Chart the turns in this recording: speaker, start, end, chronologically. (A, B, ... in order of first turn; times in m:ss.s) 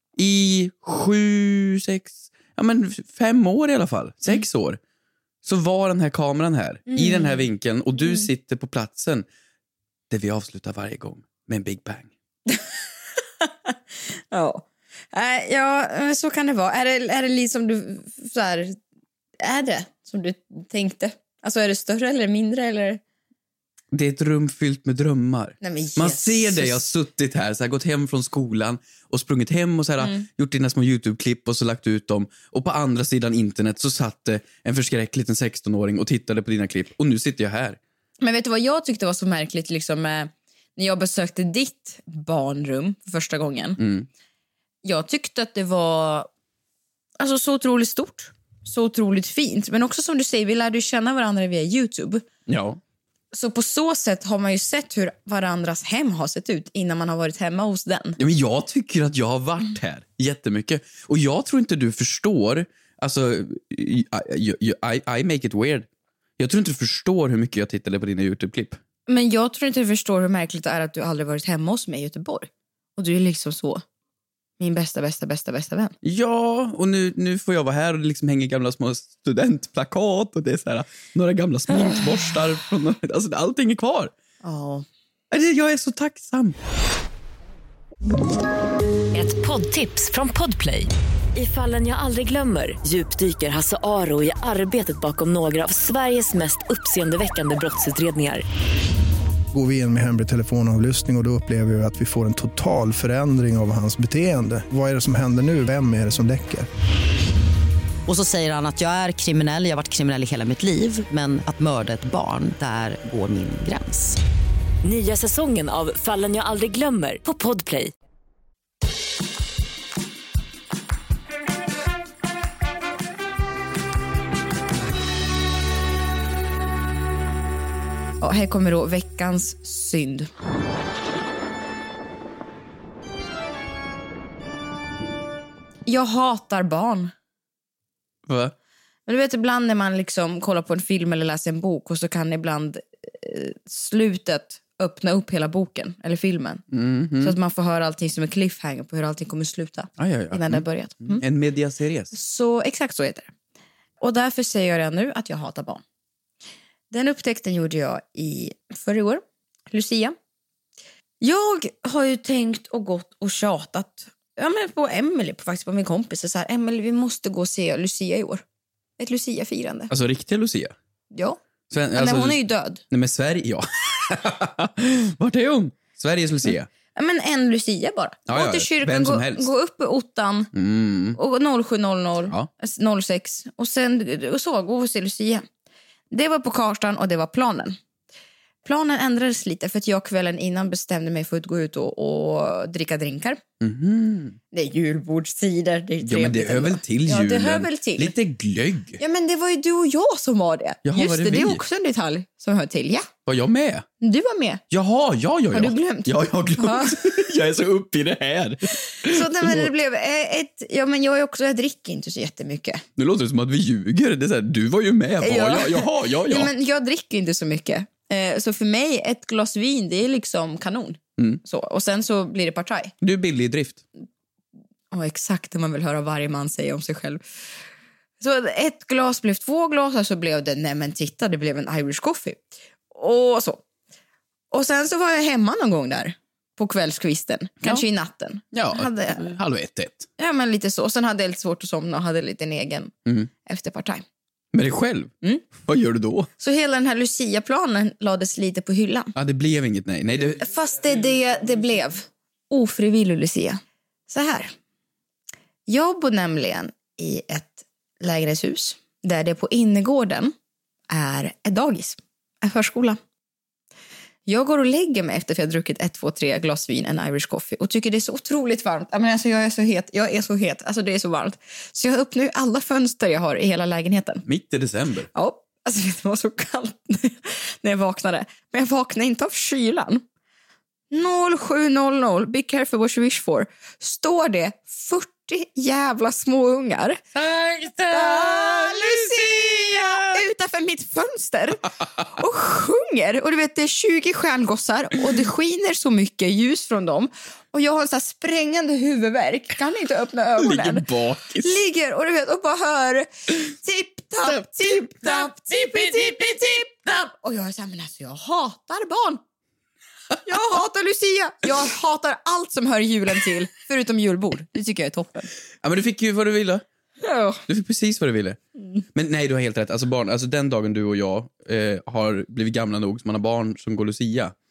0:00.2-0:04.8 A
0:05.4-0:09.3 A
0:06.9-0:07.4 B
0:10.1-0:12.1 A
0:13.4-0:13.7 B
0:14.3-0:18.8 B
0:19.4-0:23.0 B
0:23.9-0:37.8 A
0:25.6-0:26.8 B
0:30.0-0:30.3 B
0:38.2-0:43.8 B
0:43.8-0:44.1 A
0:44.8-0:46.3 B
0:47.2-0:52.2 B
0:52.5-0:52.8 A
0:53.3-0:58.2 B
0:58.2-1:08.8 A
1:09.1-1:13.8 B
1:14.6-1:16.0 B
1:16.0-1:24.1 A
1:24.4-1:24.9 B
1:25.3-1:26.6 A
1:29.1-1:38.4 C
1:39.5-1:46.7 D
1:48.1-1:54.2 E
1:54.8-1:57.9 C
2:08.2-2:10.3 B
2:15.9-2:17.1 B
2:18.3-2:18.5 A
2:19.1-2:26.6 B
2:26.7-2:27.4 A
2:27.2-2:31.2 B
2:30.0-2:32.1 A
2:32.1-2:33.3 B
2:34.0-2:35.8 B
2:36.9-2:40.2 B
2:41.2-2:48.4 B
2:49.0-2:49.9 B
2:49.9-2:50.8 A
2:51.1-2:51.4 B
2:51.7-2:52.4 A
2:51.9-2:52.8 B
2:52.9-2:56.7 A
2:56.9-3:00.5 B
2:58.3-2:59.5 A
3:00.5-3:01.2 A
3:01.2-3:05.5 B
3:06.1-3:07.8 B
3:08.6-3:13.4 B
3:13.6-3:14.4 A
3:14.5-3:18.1 B
3:16.0-3:19.0 A
3:19.0-3:23.1 B
3:20.8-3:21.6 A
3:23.3-3:23.9 A
3:24.0-3:24.6 B
3:24.7-3:29.7 A
3:25.5-3:27.0 B
3:29.0-3:32.8 B
3:33.0-3:36.5 A
3:35.2-3:42.9 B
3:43.0-3:43.8 A
3:44.9-3:47.2 B
3:48.2-3:53.6 B
3:54.5-3:59.3 B
3:58.5-4:00.1 A
4:00.2-4:02.9 B
4:03.4-4:04.0 B
4:04.5-4:06.3 A
4:06.4-4:09.1 B
4:09.2-4:10.4 A
4:10.4-4:14.5 B
4:15.7-4:20.3 B
4:20.9-4:23.0 B
4:24.3-4:34.2 B
4:34.3-4:35.1 A
4:35.1-4:40.0 B
4:40.9-4:47.0 B
4:47.2-4:50.0 A
4:47.9-5:00.9 B
5:00.4-5:01.6 A
5:01.4-5:09.2 B
5:04.7-5:06.5 A
5:10.2-5:15.3 B
5:15.6-5:16.6 A
5:17.0-5:17.4 B
5:17.5-5:18.4 A
5:18.9-5:24.4 A